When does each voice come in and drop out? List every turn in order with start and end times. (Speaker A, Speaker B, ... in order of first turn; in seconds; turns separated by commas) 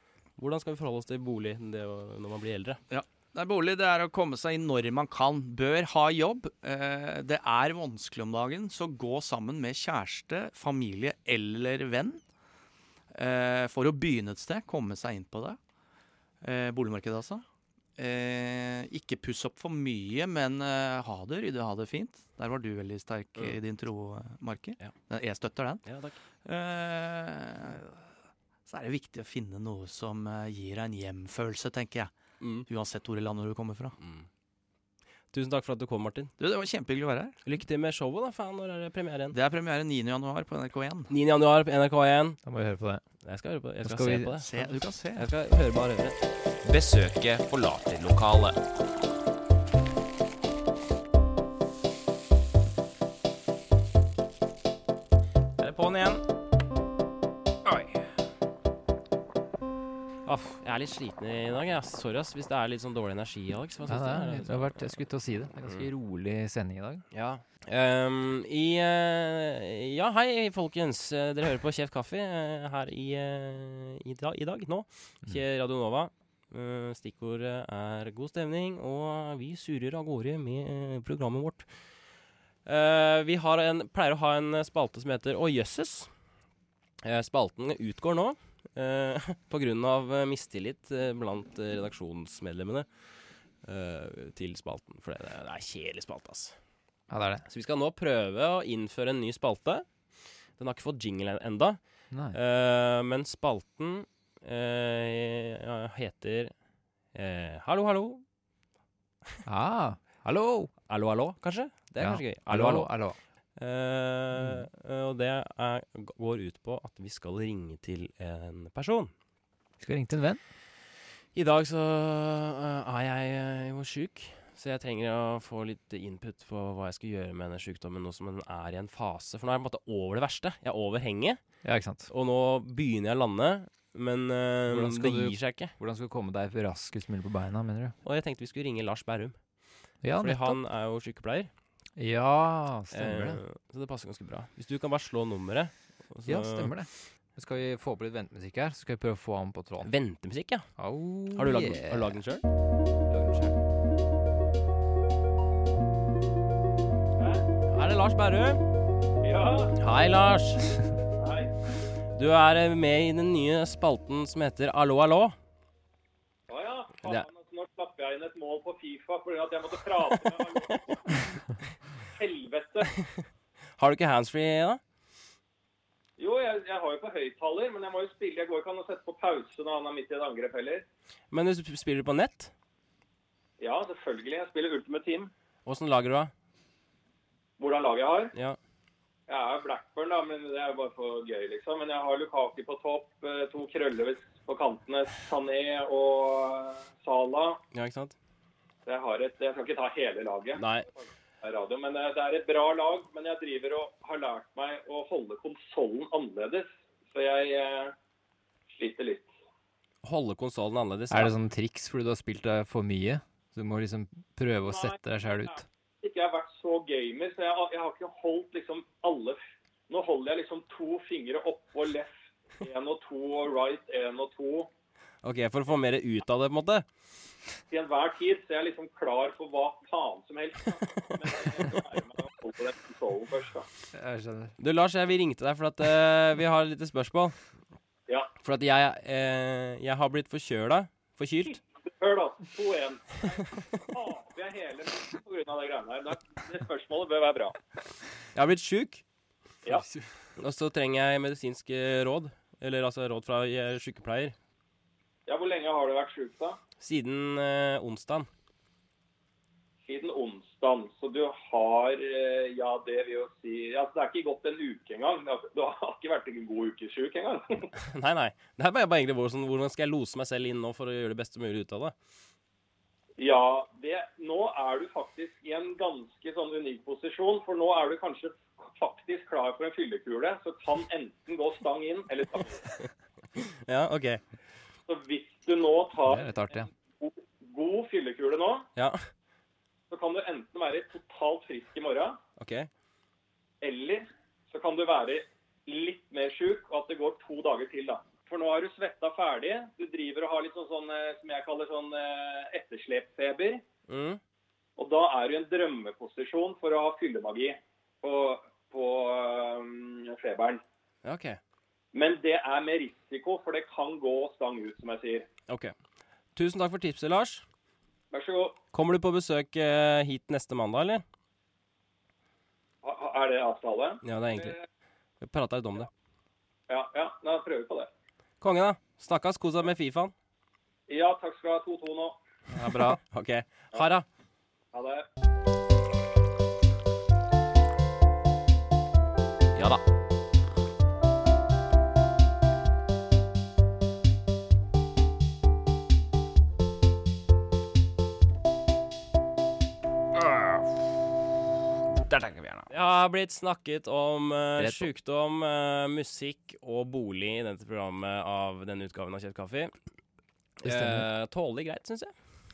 Speaker A: 0.4-2.8, Speaker B: 2.9-12.2, Speaker B: 13.1-15.6, Speaker B: 16.4-17.4, Speaker B: 18.0-25.8, Speaker A: 25.9-26.2, Speaker B: 26.4-28.0, Speaker B: 28.7-32.1, Speaker A: 32.4-32.6, Speaker B: 32.6-34.0, Speaker A: 34.0-34.3, Speaker A: 35.3-36.3, Speaker B: 36.4-37.4, Speaker A: 37.4-39.4, Speaker B: 39.3-41.1, Speaker A: 41.1-42.4, Speaker C: 42.4-43.0, Speaker A: 43.2-44.6, Speaker C: 43.8-44.4, Speaker B: 44.4-45.3, Speaker A: 45.1-46.2, Speaker D: 46.6-48.6, Speaker A: 55.6-56.2, Speaker A: 57.6-58.0, Speaker A: 60.2-64.9, Speaker C: 63.9-67.0, Speaker A: 67.1-81.7, Speaker A: 82.7-86.1, Speaker A: 87.0-92.9, Speaker A: 93.6-96.5, Speaker C: 97.1-97.5, Speaker A: 97.5-99.8, Speaker A: 100.6-101.8, Speaker C: 102.1-102.4, Speaker A: 102.3-106.5, Speaker A: 107.1-108.2, Speaker C: 109.5-110.7, Speaker A: 110.9-112.9, Speaker C: 112.0-113.2, Speaker A: 113.6-119.1, Speaker C: 114.4-114.6, Speaker C: 119.8-120.4, Speaker A: 121.3-131.4, Speaker C: 131.6-132.1, Speaker A: 132.1-135.7, Speaker C: 134.7-137.9, Speaker A: 138.0-139.4, Speaker C: 140.0-140.6, Speaker A: 140.2-141.5, Speaker C: 142.0-143.4, Speaker A: 142.9-146.7, Speaker C: 146.2-149.9, Speaker A: 149.8-150.7, Speaker C: 150.8-152.1, Speaker A: 151.3-152.4, Speaker C: 153.1-153.6, Speaker E: 157.2-157.4, Speaker A: 157.7-158.6, Speaker E: 159.2-159.8, Speaker A: 159.8-160.7, Speaker E: 161.2-161.5, Speaker A: 162.1-165.3, Speaker E: 166.5-171.3, Speaker E: 172.1-172.9, Speaker A: 173.8-174.8, Speaker E: 176.2-180.8, Speaker A: 181.3-182.5, Speaker E: 183.6-185.3, Speaker A: 185.7-186.3, Speaker E: 187.6-188.3, Speaker E: 189.3-197.6, Speaker A: 197.7-198.1, Speaker E: 198.8-200.6, Speaker A: 200.6-200.8, Speaker E: 201.4-207.9, Speaker E: 208.7-209.3, Speaker A: 210.0-211.3, Speaker C: 211.1-215.6, Speaker E: 214.7-224.7, Speaker A: 225.2-226.8, Speaker E: 227.7-233.7, Speaker C: 233.9-234.5, Speaker A: 234.6-237.3, Speaker A: 238.4-241.6, Speaker E: 241.9-247.6, Speaker A: 248.3-249.0, Speaker A: 250.4-254.3, Speaker E: 255.3-256.6, Speaker A: 256.8-258.3, Speaker E: 259.9-267.7, Speaker A: 267.8-271.9, Speaker E: 273.2-282.7, Speaker A: 283.4-284.2, Speaker E: 284.9-288.7, Speaker C: 286.0-286.7, Speaker A: 288.8-289.0, Speaker E: 289.9-292.2, Speaker A: 292.4-292.7, Speaker E: 293.6-303.6, Speaker A: 303.9-304.2, Speaker E: 304.8-310.6, Speaker A: 311.0-311.4, Speaker E: 311.9-315.3, Speaker A: 315.5-315.7, Speaker A: 316.3-317.4, Speaker E: 318.1-318.6, Speaker A: 318.7-321.0, Speaker E: 322.8-324.6, Speaker A: 324.0-324.6, Speaker A: 325.2-325.9, Speaker E: 326.7-327.9, Speaker A: 328.4-330.1, Speaker E: 330.9-332.2, Speaker C: 332.5-333.0, Speaker A: 332.6-334.1, Speaker E: 334.7-335.0, Speaker A: 339.5-339.8, Speaker A: 350.2-350.6, Speaker A: 352.1-359.7, Speaker C: 354.6-354.9, Speaker A: 360.6-362.1, Speaker C: 360.6-361.1